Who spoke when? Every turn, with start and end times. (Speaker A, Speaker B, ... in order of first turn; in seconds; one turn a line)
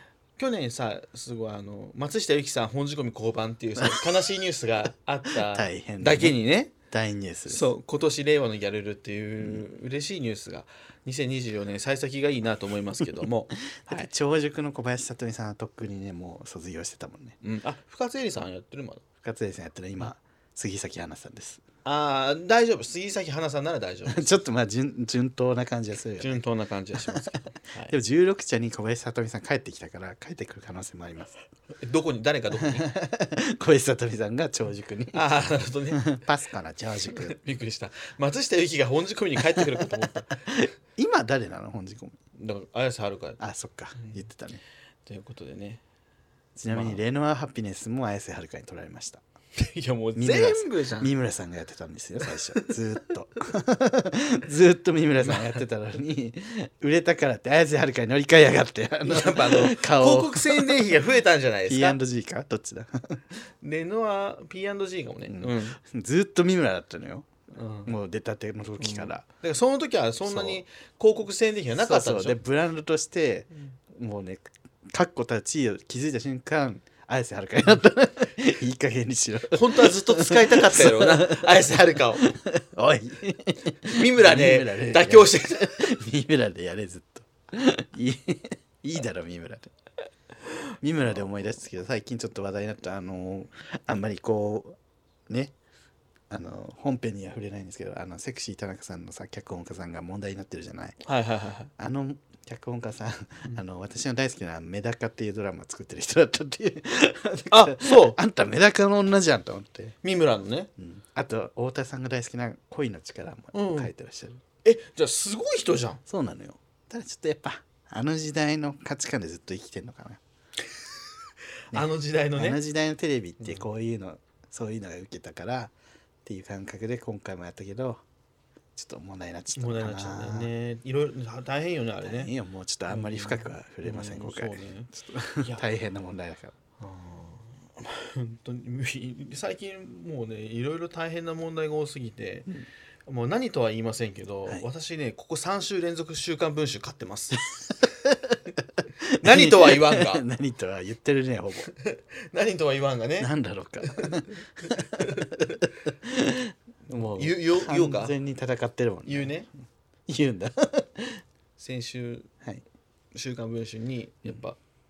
Speaker A: 0.4-6.7
Speaker B: 5.4-6.4
Speaker B: 6.9-7.7
Speaker A: 7.5-14.1
Speaker B: 13.8-17.4
Speaker A: 17.4-19.0
Speaker B: 19.2-21.6
Speaker A: 21.8-24.4
Speaker B: 24.1-26.4
Speaker A: 26.2-27.9
Speaker B: 27.0-31.4
Speaker A: 31.7-32.9
Speaker B: 32.7-35.3
Speaker A: 35.1-36.1
Speaker B: 35.9-37.4
Speaker A: 37.1-40.4
Speaker B: 40.5-42.2
Speaker A: 42.3-43.4
Speaker B: 43.4-44.6
Speaker A: 45.0-45.8
Speaker B: 46.6-49.2
Speaker A: 46.6-47.0
Speaker A: 49.5-51.1
Speaker B: 50.1-60.9
Speaker A: 55.2-55.6
Speaker A: 59.0-62.0
Speaker B: 61.7-63.2
Speaker A: 63.6-65.8
Speaker B: 65.3-67.3
Speaker A: 67.5-67.9
Speaker B: 67.8-69.2
Speaker A: 68.8-72.4
Speaker B: 70.2-70.6
Speaker B: 71.8-89.7
Speaker A: 79.5-82.3
Speaker A: 83.8-85.8
Speaker B: 90.8-94.8
Speaker B: 95.3-95.5
Speaker B: 96.3-101.0
Speaker A: 101.0-101.7
Speaker B: 101.8-110.0
Speaker A: 107.5-108.2
Speaker A: 110.0-110.7
Speaker B: 110.8-114.4
Speaker A: 113.5-113.9
Speaker A: 114.6-116.0
Speaker B: 116.1-120.2
Speaker A: 121.7-122.6
Speaker B: 121.7-125.7
Speaker A: 123.4-123.7
Speaker B: 126.2-128.0
Speaker B: 128.8-130.5
Speaker A: 129.6-132.3
Speaker B: 132.0-136.5
Speaker A: 132.9-134.9
Speaker A: 136.8-142.5
Speaker A: 143.1-147.4
Speaker B: 148.0-151.7
Speaker A: 149.2-150.2
Speaker A: 151.7-153.3
Speaker B: 153.2-159.3
Speaker A: 153.8-154.2
Speaker A: 154.8-155.5
Speaker A: 157.1-158.1
Speaker A: 159.1-159.5
Speaker B: 160.1-161.2
Speaker A: 161.6-162.3
Speaker A: 163.1-164.6